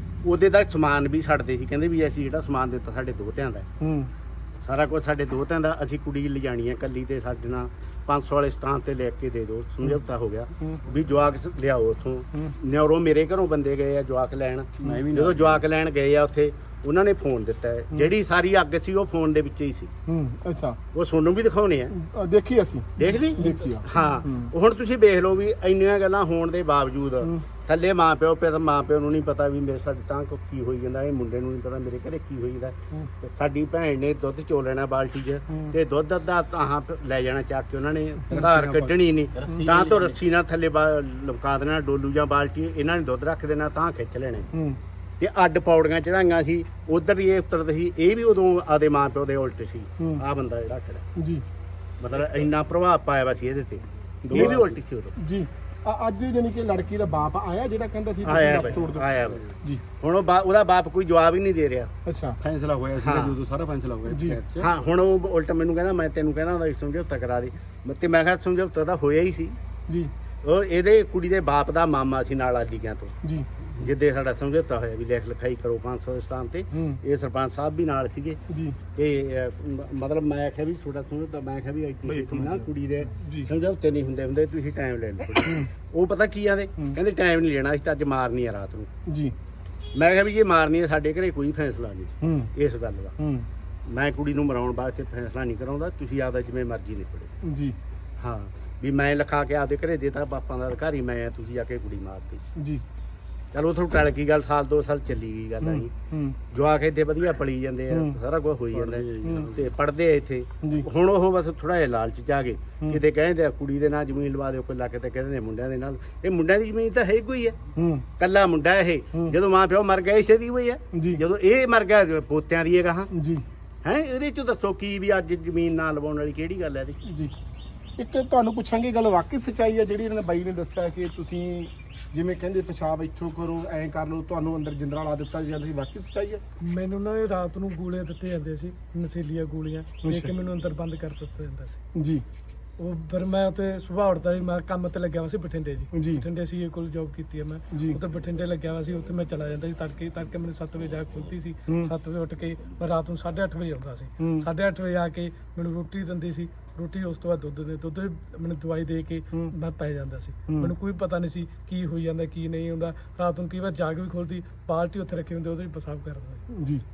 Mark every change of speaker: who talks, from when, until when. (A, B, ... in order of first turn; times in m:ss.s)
0:00.2-0:03.7 A
0:03.8-0:04.1 B
0:04.6-0:19.9 A
0:14.9-0:15.5 C
0:20.1-0:20.8 B
0:20.9-0:21.9 A
0:21.9-0:24.5 B
0:23.0-0:44.5 A
0:38.3-0:38.9 B
0:39.4-0:39.8 B
0:44.5-0:44.8 B
0:45.2-0:51.0 A
0:51.2-0:51.4 B
0:52.0-0:55.1 A
0:54.3-0:59.1 B
0:58.2-1:01.9 A
1:02.0-1:02.4 B
1:02.4-1:04.7 C
1:03.0-1:03.4 A
1:04.1-1:04.4 B
1:04.6-1:09.6 A
1:10.4-1:13.2 A
1:13.7-1:28.9 A
1:18.5-1:18.8 B
1:22.0-1:22.7 B
1:23.2-1:23.5 B
1:29.0-1:29.3 B
1:29.9-1:33.2 A
1:32.2-1:32.5 B
1:33.2-1:33.5 B
1:33.8-1:37.3 A
1:37.4-1:37.8 B
1:38.2-1:42.4 A
1:42.6-1:42.8 B
1:43.5-1:57.6 A
1:45.6-1:46.4 B
1:47.9-1:48.2 B
1:49.2-1:49.6 B
1:57.8-1:58.0 B
1:58.2-2:03.1 A
2:00.9-2:01.2 B
2:03.1-2:03.4 B
2:03.8-2:07.0 A
2:07.1-2:07.3 B
2:08.0-2:16.4 B
2:16.6-2:21.8 D
2:20.0-2:20.3 B
2:21.9-2:22.2 B
2:22.8-2:46.4 D
2:25.9-2:26.2 B
2:27.7-2:28.0 B
2:34.2-2:34.4 B
2:46.5-2:46.8 B